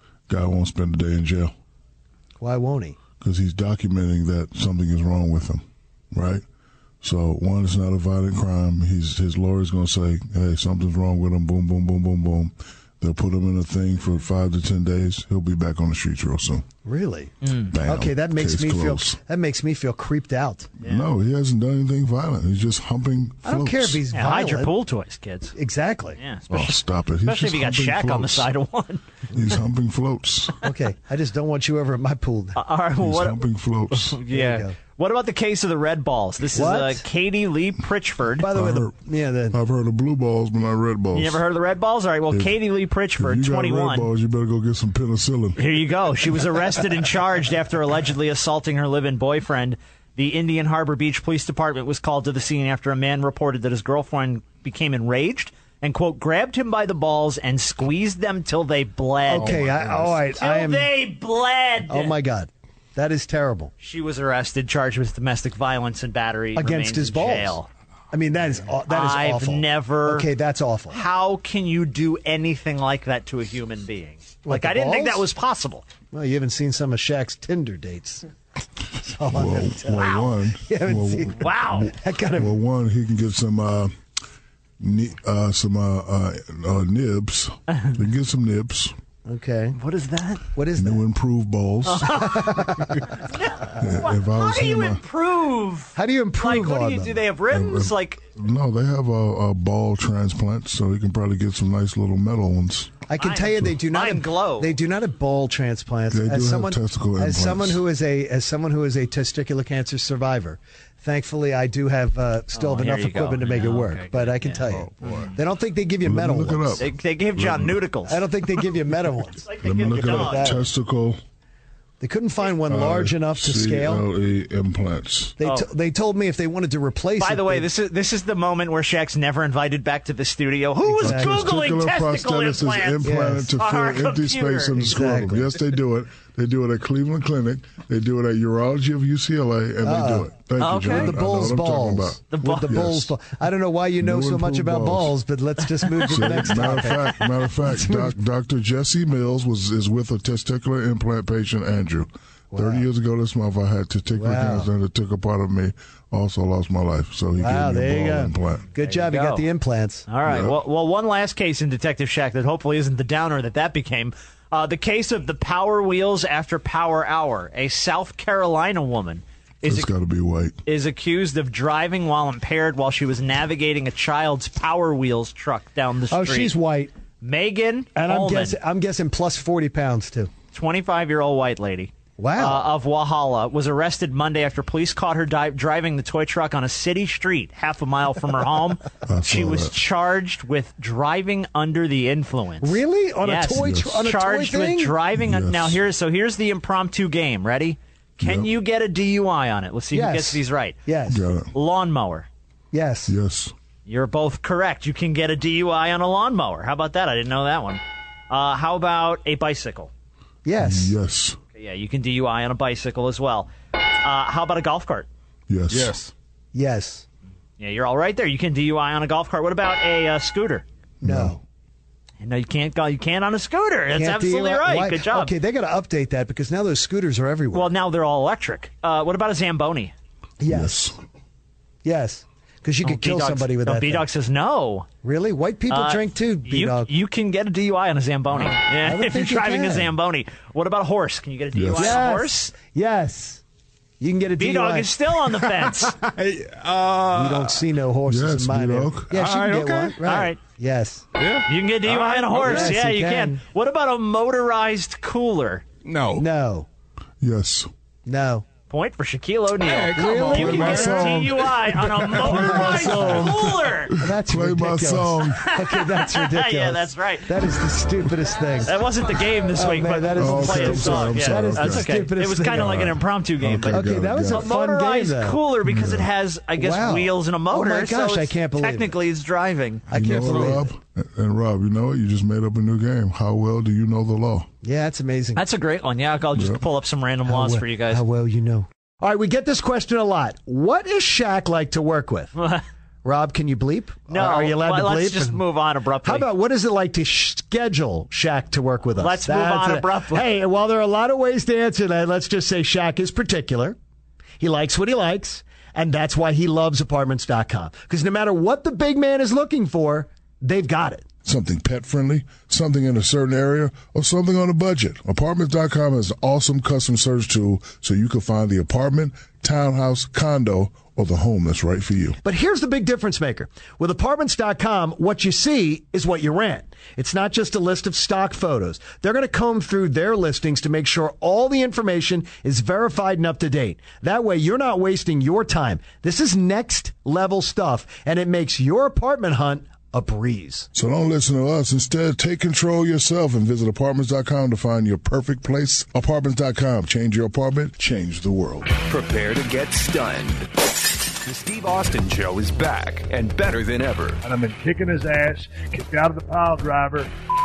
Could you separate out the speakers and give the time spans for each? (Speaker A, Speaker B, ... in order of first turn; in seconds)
Speaker A: 0.3-1.5, 3.2-6.4, 7.0-16.6, 17.7-19.2, 20.8-24.0, 26.5-28.5, 29.3-30.6, 33.0-34.2, 38.4-39.0, 39.5-41.4, 42.3-45.7, 59.4-60.2, 79.3-83.9, 84.8-89.0, 90.8-92.2, 93.8-95.0, 97.5-103.0, 106.1-107.8, 116.0-117.8, 119.6-121.2, 122.6-125.4, 131.0-143.1, 144.0-145.2, 146.1-158.7, 160.2-160.6, 169.6-170.6, 189.1-189.8, 193.5-194.0, 195.2-195.8, 198.2-198.5, 201.1-201.5, 203.1-203.5, 210.6-211.4, 215.5-215.9, 221.0-221.4, 230.4-230.9, 241.5-242.0, 248.1-249.1, 257.2-257.7, 260.2-265.4, 270.1-274.5, 275.6-276.1, 279.9-284.5, 286.3-286.6, 311.2-322.2, 340.7-348.7
Speaker B: 2.4-3.0, 16.8-20.7, 23.4-24.7, 25.5-26.2, 30.6-32.6, 34.3-34.7, 36.5-37.0, 38.4-39.6, 59.3-60.9, 61.9-63.7, 66.5-67.6, 68.1-71.0, 74.4-75.2, 76.1-78.3, 79.0-82.5, 89.2-89.8, 90.5-91.0, 92.2-93.1, 95.9-97.2, 103.1-116.8, 118.1-120.6, 122.0-124.0, 125.4-127.7, 130.8-131.5, 133.0-133.5, 134.8-135.5, 139.8-148.1, 152.5-152.8, 154.2-154.7, 157.4-160.1, 176.1-176.9, 177.9-180.3, 182.2-182.6, 192.6-194.9, 199.9-201.2, 202.7-203.1, 210.4-210.9, 216.5-217.1, 221.0-221.4, 223.9-227.7, 230.4-230.9, 231.8-234.1, 235.0-236.9, 238.4-239.9, 241.7-243.4, 244.0-244.9, 247.1-251.0, 252.3-253.4, 256.2-256.7, 258.1-258.4, 259.9-261.1, 262.2-263.4, 264.0-268.7, 269.5-272.9, 273.7-275.4, 276.6-278.9, 279.9-280.7, 284.6-285.4, 287.2-292.3, 293.0-295.4, 296.0-303.8, 304.4-311.1, 322.2-340.7
Speaker C: 17.4-17.7, 20.8-21.1, 24.1-25.5, 26.2-29.0, 32.5-33.4, 33.9-38.5, 41.1-44.1, 45.6-62.1, 63.8-67.7, 68.9-70.3, 70.9-75.8, 80.0-80.2, 81.3-81.9, 89.8-90.4, 91.8-92.6, 93.1-98.2, 103.2-104.7, 112.5-115.3, 116.8-118.2, 119.4-120.6, 125.4-125.7, 127.2-134.9, 140.6-141.1, 142.3-142.8, 158.8-159.4, 160.1-169.9, 170.7-176.5, 177.2-178.6, 180.5-200.8, 201.5-202.3, 203.9-209.9, 211.6-213.5, 214.0-215.1, 217.6-220.6, 222.2-225.3, 227.5-229.9, 232.8-234.9, 235.7-242.5, 244.4-245.9, 250.0-250.4, 251.4-255.6, 258.7-263.9, 265.3-267.3, 268.6-280.3, 285.4-288.0, 292.4-292.6, 294.1-296.3, 299.0-300.3
Speaker D: 115.0-115.3, 215.7-216.1, 246.1-247.6, 249.1-250.0, 251.2-252.7, 255.8-256.2, 259.6-261.2
Speaker E: 348.9-350.5, 351.2-354.2
Speaker F: 354.2-357.1